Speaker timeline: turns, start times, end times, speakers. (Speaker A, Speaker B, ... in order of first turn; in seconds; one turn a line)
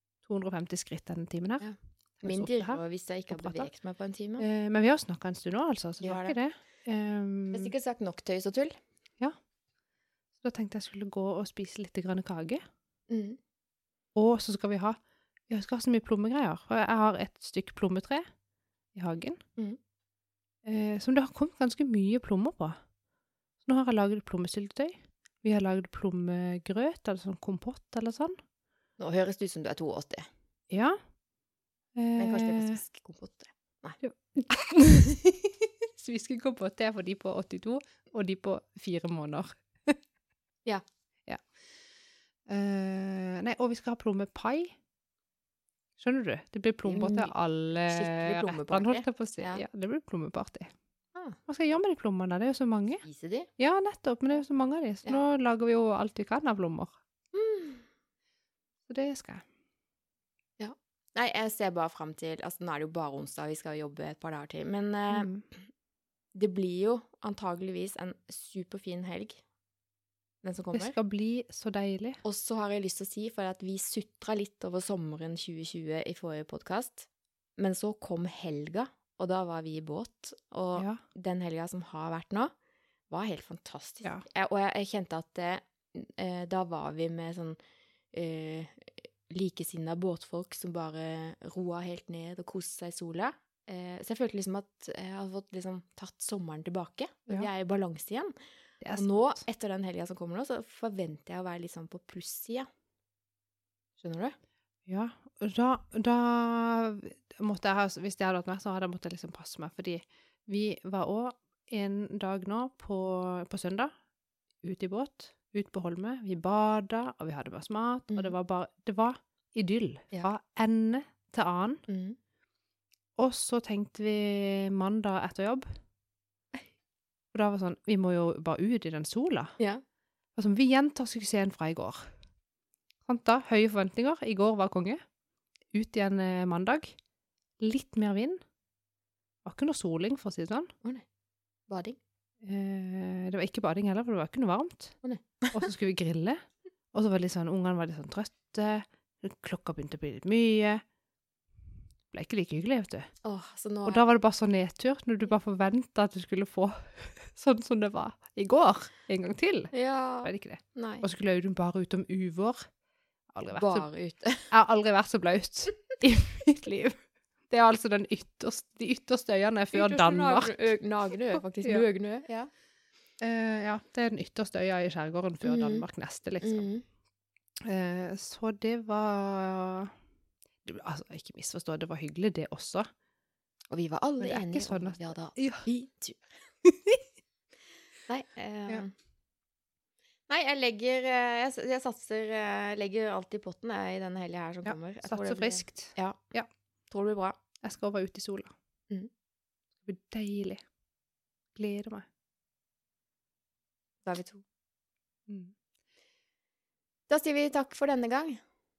Speaker A: 0.2-1.7
Speaker B: 1.6-4.5
Speaker A: 2.2-3.7
Speaker A: 4.4-7.7
Speaker B: 6.0-6.4
Speaker B: 7.5-8.8
Speaker A: 10.4-12.6
Speaker B: 13.1-13.4
Speaker A: 14.2-18.3
Speaker A: 18.9-19.4
Speaker A: 20.6-22.8
Speaker A: 23.6-28.4
Speaker B: 29.0-30.3
Speaker A: 30.7-31.0
Speaker A: 31.9-32.8
Speaker B: 32.2-34.0
Speaker A: 34.0-40.0
Speaker A: 42.5-44.8
Speaker A: 46.0-50.7
Speaker B: 46.9-47.3
Speaker B: 47.9-49.6
Speaker A: 51.5-53.0
Speaker B: 53.0-53.5
Speaker A: 53.6-56.9
Speaker B: 57.3-57.9
Speaker A: 58.9-59.4
Speaker B: 60.6-65.6
Speaker A: 65.1-65.5
Speaker B: 66.3-69.4
Speaker B: 70.4-71.0
Speaker A: 70.7-72.2
Speaker B: 72.2-82.5
Speaker A: 80.8-81.0
Speaker B: 83.1-87.6
Speaker B: 88.1-98.3
Speaker A: 98.8-99.4
Speaker B: 98.9-102.7
Speaker B: 104.0-104.3
Speaker A: 104.9-113.9
Speaker A: 114.6-121.8
Speaker B: 121.9-122.2
Speaker A: 123.2-125.7
Speaker A: 127.3-129.6
Speaker A: 130.4-132.1
Speaker A: 133.1-135.0
Speaker A: 135.7-137.0
Speaker A: 137.6-138.4
Speaker A: 139.4-140.7
Speaker B: 141.7-142.0
Speaker A: 142.4-145.0
Speaker B: 145.0-145.7
Speaker A: 145.5-150.8
Speaker A: 152.1-153.1
Speaker B: 153.2-154.1
Speaker A: 153.8-162.7
Speaker B: 159.7-161.1
Speaker A: 163.3-163.9
Speaker B: 163.5-164.5
Speaker A: 164.5-167.0
Speaker A: 167.5-170.7
Speaker B: 169.7-172.5
Speaker A: 173.2-176.7
Speaker B: 175.4-175.9
Speaker B: 176.4-176.8
Speaker A: 177.6-179.9
Speaker A: 180.6-182.9
Speaker B: 183.7-186.4
Speaker A: 184.2-185.7
Speaker A: 186.6-187.0
Speaker B: 188.1-188.9
Speaker B: 190.3-196.2
Speaker A: 194.6-196.5
Speaker B: 196.9-197.4
Speaker A: 197.6-198.5
Speaker A: 199.8-200.6
Speaker A: 201.6-202.1
Speaker B: 204.1-204.4
Speaker A: 205.3-205.6
Speaker B: 207.1-208.4